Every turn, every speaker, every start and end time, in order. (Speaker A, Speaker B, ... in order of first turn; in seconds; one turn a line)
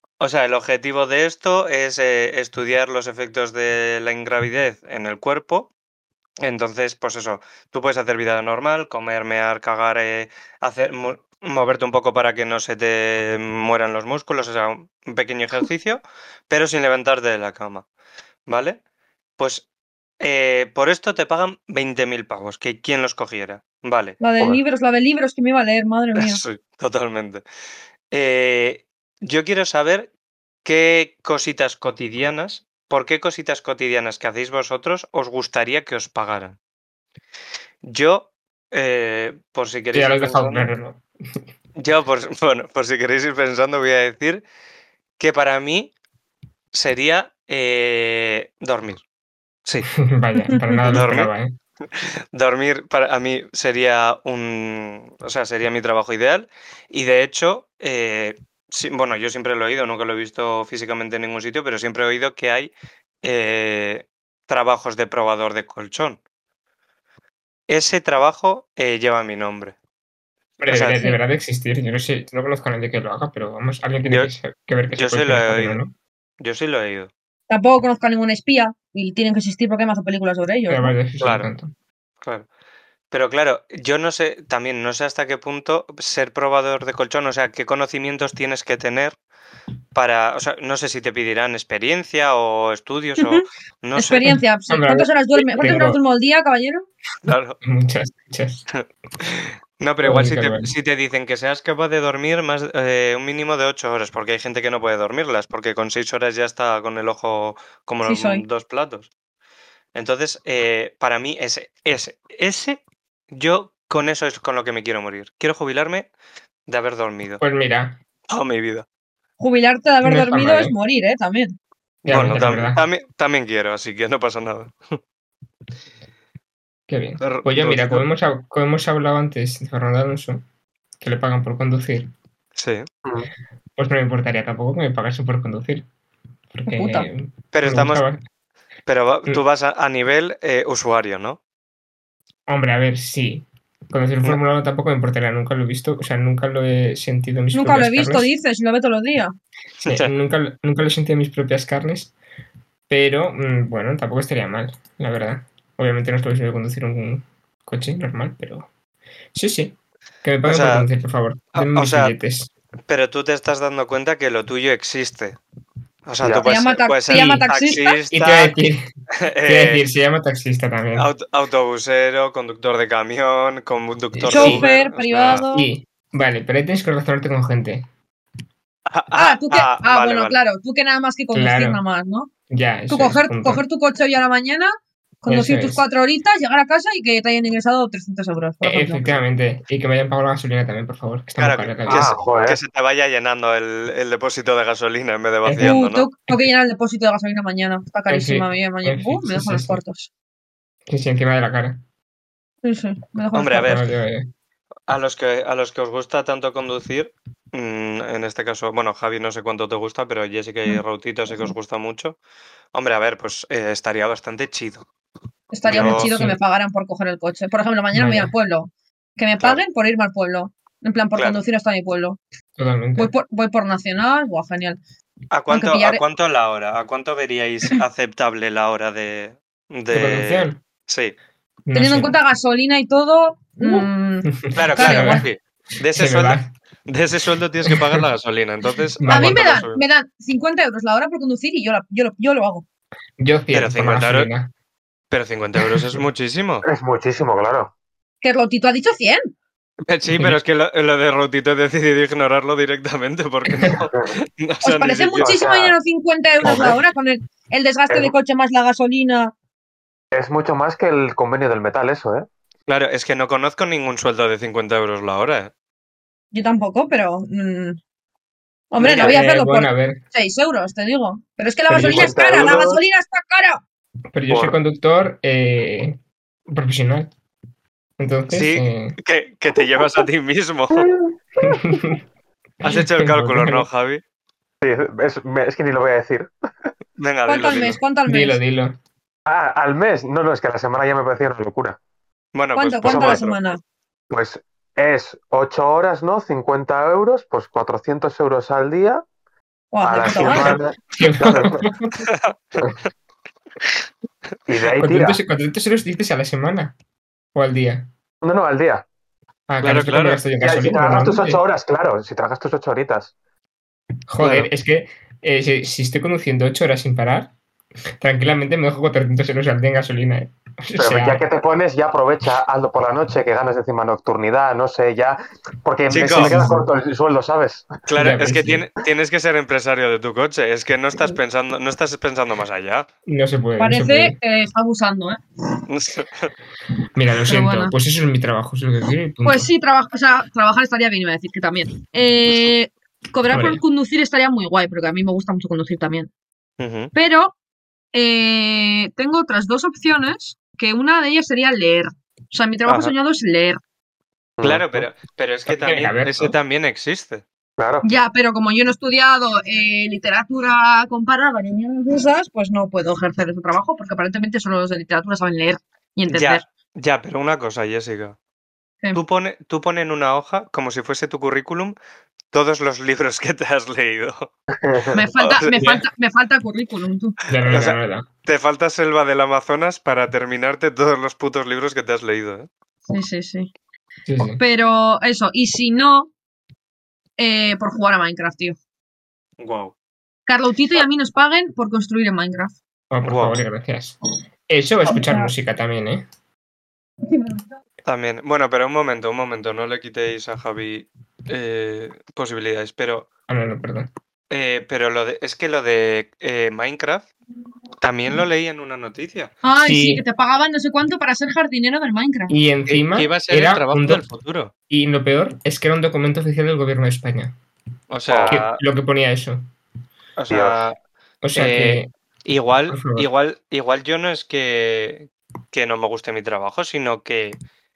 Speaker A: 0.2-5.7
Speaker A: 6.4-17.8
Speaker A: 18.5-18.8
Speaker A: 19.4-19.6
Speaker A: 20.2-24.2
Speaker B: 24.2-26.4
Speaker A: 26.1-27.4
Speaker A: 28.1-30.1
Speaker A: 30.6-36.6
Speaker A: 37.8-40.7
Speaker C: 39.9-41.0
Speaker A: 41.8-44.4
Speaker A: 45.2-45.9
Speaker A: 46.7-49.0
Speaker C: 49.9-51.5
Speaker B: 50.4-50.8
Speaker A: 50.9-51.3
Speaker A: 51.9-66.2
Speaker A: 67.7-69.8
Speaker C: 70.6-75.9
Speaker A: 70.7-71.1
Speaker A: 74.9-75.8
Speaker A: 76.4-77.1
Speaker B: 77.5-80.9
Speaker C: 80.7-81.7
Speaker A: 81.2-81.5
Speaker A: 82.2-82.5
Speaker A: 83.1-89.2
Speaker A: 89.9-94.3
Speaker B: 94.0-96.8
Speaker C: 94.7-96.0
Speaker A: 97.2-97.6
Speaker C: 97.6-98.7
Speaker A: 98.7-109.1
Speaker C: 100.0-100.7
Speaker B: 108.0-108.4
Speaker A: 109.9-116.1
Speaker A: 116.7-117.4
Speaker C: 117.4-118.0
Speaker A: 118.3-118.8
Speaker B: 119.4-121.5
Speaker C: 120.0-120.7
Speaker C: 122.0-122.8
Speaker A: 122.1-125.0
Speaker C: 126.9-130.4
Speaker A: 127.2-128.1
Speaker C: 131.0-132.1
Speaker A: 132.6-132.9
Speaker C: 133.8-135.8
Speaker C: 136.5-138.2
Speaker B: 136.7-137.1
Speaker A: 137.5-138.0
Speaker A: 138.9-141.4
Speaker C: 142.5-148.3
Speaker B: 147.5-149.3
Speaker A: 149.8-150.1
Speaker C: 149.8-152.1
Speaker C: 152.9-158.7
Speaker C: 159.3-162.5
Speaker A: 160.4-160.9
Speaker A: 161.5-162.1
Speaker A: 162.9-165.4
Speaker A: 166.1-168.6
Speaker D: 166.2-166.5
Speaker B: 166.4-168.0
Speaker C: 167.1-167.4
Speaker C: 168.1-168.9
Speaker A: 169.1-169.8
Speaker C: 169.4-171.1
Speaker A: 170.9-175.4
Speaker B: 174.2-175.7
Speaker C: 174.2-174.7
Speaker C: 175.4-177.9
Speaker A: 178.9-180.4
Speaker B: 179.1-182.3
Speaker C: 181.3-181.8
Speaker C: 182.5-183.6
Speaker B: 182.9-184.7
Speaker B: 185.2-189.1
Speaker C: 185.3-185.8
Speaker C: 188.6-192.1
Speaker A: 191.4-196.1
Speaker D: 191.8-192.6
Speaker C: 195.4-195.7
Speaker B: 195.6-200.1
Speaker C: 198.1-199.8
Speaker C: 200.9-201.8
Speaker B: 202.6-203.8
Speaker A: 203.3-203.8
Speaker C: 203.6-204.3
Speaker A: 204.9-212.2
Speaker A: 212.7-214.8
Speaker B: 215.5-222.2
Speaker A: 215.7-216.1
Speaker C: 215.7-216.4
Speaker C: 217.9-218.3
Speaker A: 221.1-221.4
Speaker C: 222.6-223.1
Speaker B: 223.0-224.8
Speaker A: 225.3-231.2
Speaker B: 225.5-226.0
Speaker C: 229.9-230.6
Speaker C: 231.7-232.2
Speaker B: 231.7-235.2
Speaker C: 234.4-235.2
Speaker A: 234.5-239.8
Speaker C: 235.9-236.5
Speaker C: 237.7-238.0
Speaker C: 239.0-239.4
Speaker B: 239.1-242.6
Speaker C: 243.2-244.5
Speaker A: 243.5-244.3
Speaker A: 245.1-246.6
Speaker C: 245.6-246.0
Speaker D: 246.6-247.7
Speaker B: 248.2-249.3
Speaker A: 249.9-255.4
Speaker C: 250.1-250.4
Speaker B: 254.6-259.3
Speaker D: 255.2-255.8
Speaker D: 256.4-256.8
Speaker D: 260.1-262.3
Speaker A: 262.7-265.5
Speaker B: 266.3-267.8
Speaker B: 268.7-273.6
Speaker A: 268.8-269.2
Speaker C: 268.9-270.0
Speaker C: 271.7-272.2
Speaker D: 271.8-272.8
Speaker C: 274.1-277.1
Speaker D: 274.3-274.6
Speaker C: 278.0-279.0
Speaker A: 278.3-280.9
Speaker C: 281.4-282.0
Speaker A: 282.6-284.0
Speaker C: 282.6-283.7
Speaker D: 284.6-286.3
Speaker A: 287.0-287.8
Speaker B: 287.3-288.4
Speaker C: 288.1-288.8
Speaker D: 289.2-291.8
Speaker A: 292.3-293.4
Speaker B: 292.6-293.6
Speaker D: 292.8-293.3
Speaker D: 294.1-299.0
Speaker B: 299.7-300.6
Speaker D: 299.8-301.6
Speaker C: 300.9-301.9
Speaker A: 302.0-302.3
Speaker D: 304.5-305.2
Speaker C: 304.8-306.7
Speaker C: 307.3-307.9
Speaker D: 308.2-308.8
Speaker C: 309.5-311.4
Speaker A: 309.6-310.2
Speaker D: 310.4-313.1
Speaker C: 314.1-317.3
Speaker A: 314.2-314.5
Speaker C: 318.0-321.2
Speaker D: 320.8-327.8
Speaker A: 325.9-326.5
Speaker C: 325.9-326.7
Speaker A: 327.9-332.9
Speaker C: 327.9-328.6
Speaker C: 333.1-334.2
Speaker B: 333.6-335.2
Speaker A: 335.7-336.3
Speaker C: 336.9-339.5
Speaker B: 337.2-337.7
Speaker B: 339.2-346.1
Speaker C: 343.3-343.6
Speaker A: 346.6-346.9
Speaker B: 346.9-347.3
Speaker B: 347.9-353.6
Speaker A: 352.6-352.9
Speaker D: 354.4-354.9
Speaker A: 354.4-357.2
Speaker C: 355.5-356.4
Speaker D: 357.6-357.9
Speaker B: 357.8-366.4
Speaker A: 366.1-368.1
Speaker A: 368.9-371.7
Speaker A: 372.3-374.3
Speaker D: 374.5-375.0
Speaker B: 374.9-377.2
Speaker A: 375.1-375.8
Speaker C: 377.3-378.1
Speaker A: 377.4-382.5
Speaker B: 382.9-383.5
Speaker C: 384.1-384.4
Speaker B: 384.2-386.1
Speaker B: 387.2-388.6
Speaker A: 389.4-389.7
Speaker B: 390.3-392.6
Speaker C: 392.9-393.9
Speaker A: 393.0-393.4
Speaker C: 394.5-396.1
Speaker B: 394.9-395.3
Speaker B: 397.0-397.5
Speaker A: 397.8-403.1
Speaker C: 403.3-403.9
Speaker A: 404.3-407.1
Speaker A: 407.8-409.3
Speaker B: 409.4-412.3
Speaker C: 409.6-410.0
Speaker C: 412.3-414.0
Speaker A: 412.7-414.5
Speaker C: 414.7-417.3
Speaker A: 417.9-418.6
Speaker D: 418.1-418.4
Speaker C: 418.2-419.4
Speaker A: 420.2-420.8
Speaker D: 420.3-420.6
Speaker C: 421.2-421.9
Speaker A: 421.3-427.4
Speaker C: 422.7-423.1